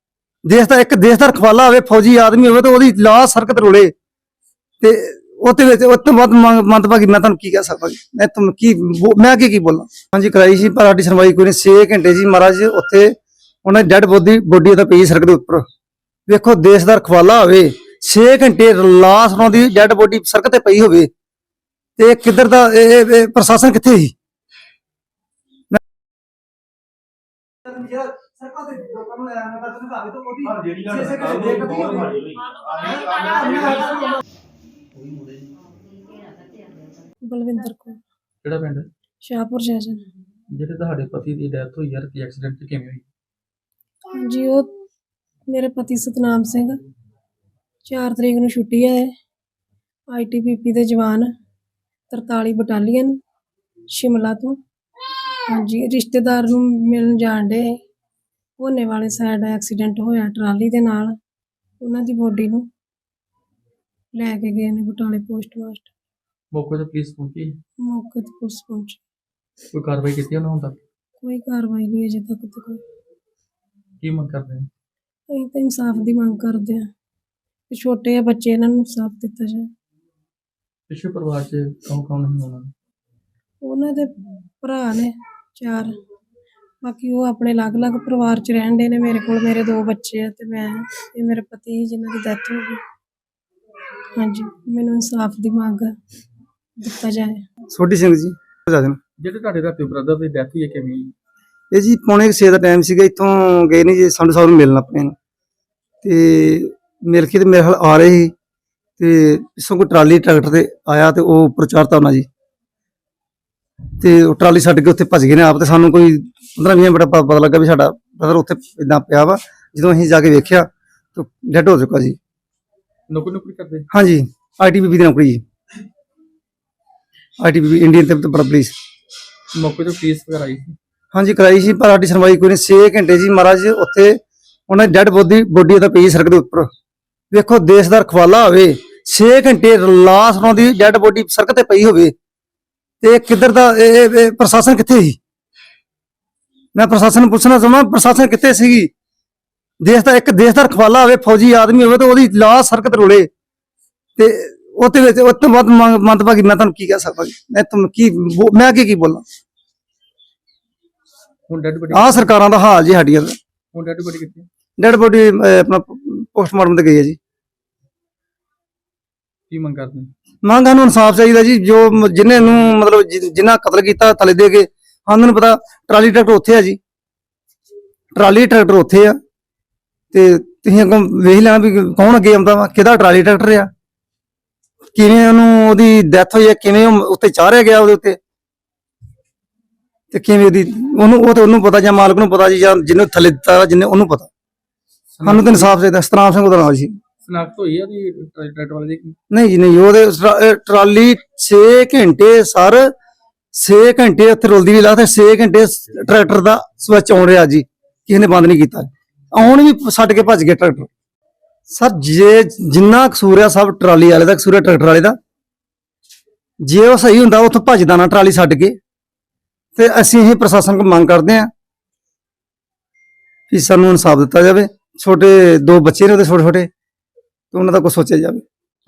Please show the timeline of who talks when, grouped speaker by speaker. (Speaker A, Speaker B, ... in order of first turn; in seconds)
Speaker A: 0.5-3.9, 4.8-13.1, 13.6-15.6, 16.3-21.1, 22.0-24.1, 27.6-34.1, 97.7-99.0, 101.7-105.1, 106.0-108.3, 109.0-112.2, 114.0-122.2, 123.9-125.4, 127.4-128.7, 131.1-134.2, 134.7-136.7, 137.3-142.1, 143.0-145.2, 146.7-148.9, 149.8-153.3, 154.2-159.2, 161.9-163.3, 164.8-167.2, 170.4-176.8, 178.2-179.2, 180.1-183.7, 184.9-188.2, 190.1-194.3, 195.2-196.9, 199.3-202.9, 203.5-210.9, 211.7-215.2, 216.6-218.8, 219.8-221.5, 223.5-226.7, 227.5-228.4
Speaker B: 37.2-38.0, 39.2-40.0, 44.1-44.7, 45.5-46.7, 47.9-49.1, 50.1-51.3, 52.1-53.1, 53.9-54.6, 55.5-57.6, 58.6-61.1, 61.8-62.6, 64.1-65.9, 67.8-69.0, 71.2-72.8, 75.3-76.9, 77.7-79.7, 83.6-85.9, 86.8-92.8, 94.1-95.9, 96.8-97.4
Speaker C: 38.4-38.9, 40.5-43.0, 66.5-67.6, 69.7-70.8, 74.0-74.7, 80.9-82.7, 99.2-101.1, 123.1-123.9, 129.5-130.8, 161.5-162.3, 163.7-164.5, 169.5-170.1, 195.1-195.7, 197.2-199.2